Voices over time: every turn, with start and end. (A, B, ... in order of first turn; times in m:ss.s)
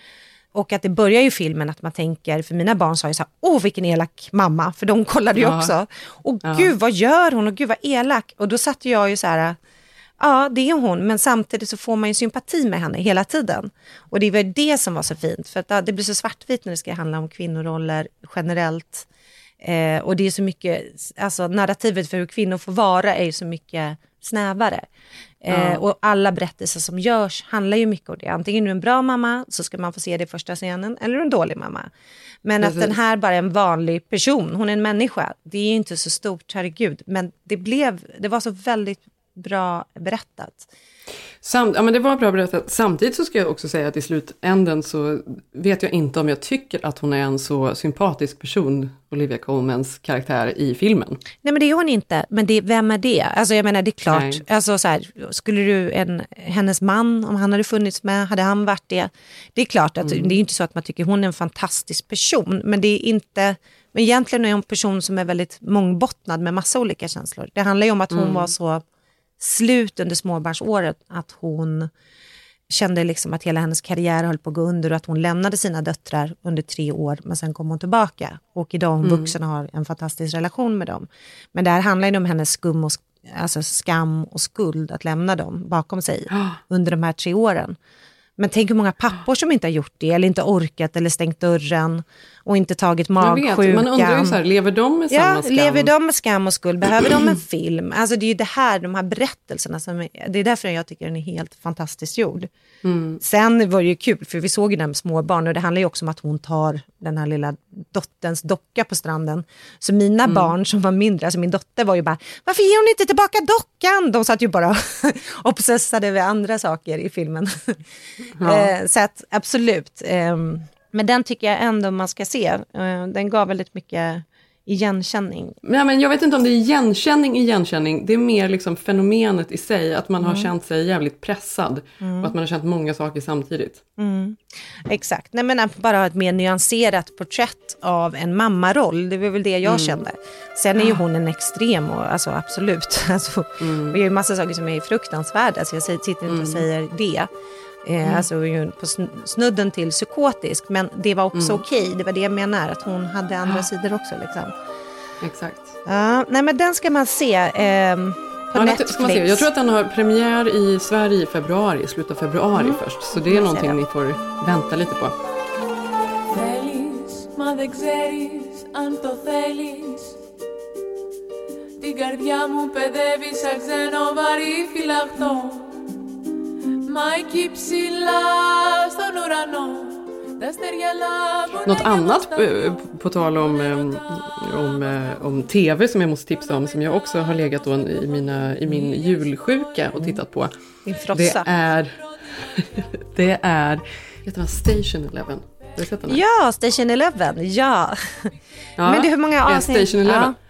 0:00.6-0:09.6 A
0:05.4-0:05.7 B
0:06.4-0:06.7 B
0:10.2-0:19.1 A
0:19.6-0:24.9 A
0:25.4-0:31.9 A
0:25.5-0:25.8 B
0:32.4-0:40.7 A
0:32.6-0:32.9 B
0:41.4-0:51.2 B
0:51.4-1:08.8 A
0:54.1-0:54.4 B
1:00.0-1:00.4 B
1:08.1-1:08.5 B
1:09.4-1:11.9 A
1:12.7-1:27.8 A
1:19.0-1:19.3 B
1:26.3-1:26.6 B
1:28.4-1:34.4 A
1:33.2-1:35.9 B
1:35.1-1:42.5 A
1:42.8-1:43.2 B
1:43.2-1:57.8 A
1:50.3-1:50.5 B
1:58.4-1:58.7 B
1:58.4-2:05.6 A
2:05.6-2:13.8 B
2:10.2-2:10.5 A
2:12.0-2:12.3 A
2:14.0-2:27.3 A
2:19.6-2:20.0 B
2:23.6-2:24.0 B
2:26.3-2:26.6 B
2:27.9-2:34.5 A
2:31.4-2:31.6 B
2:35.2-2:35.8 B
2:35.9-2:39.5 A
2:38.6-2:45.1 B
2:42.6-2:43.8 A
2:46.3-2:50.2 C
2:51.8-2:55.8 C
2:56.9-3:02.5 C
3:01.6-3:10.5 B
3:10.9-3:11.5 A
3:11.1-3:12.0 B
3:12.6-3:16.2 B
3:16.1-3:18.3 A
3:18.8-3:20.4 B
3:18.8-3:20.3 A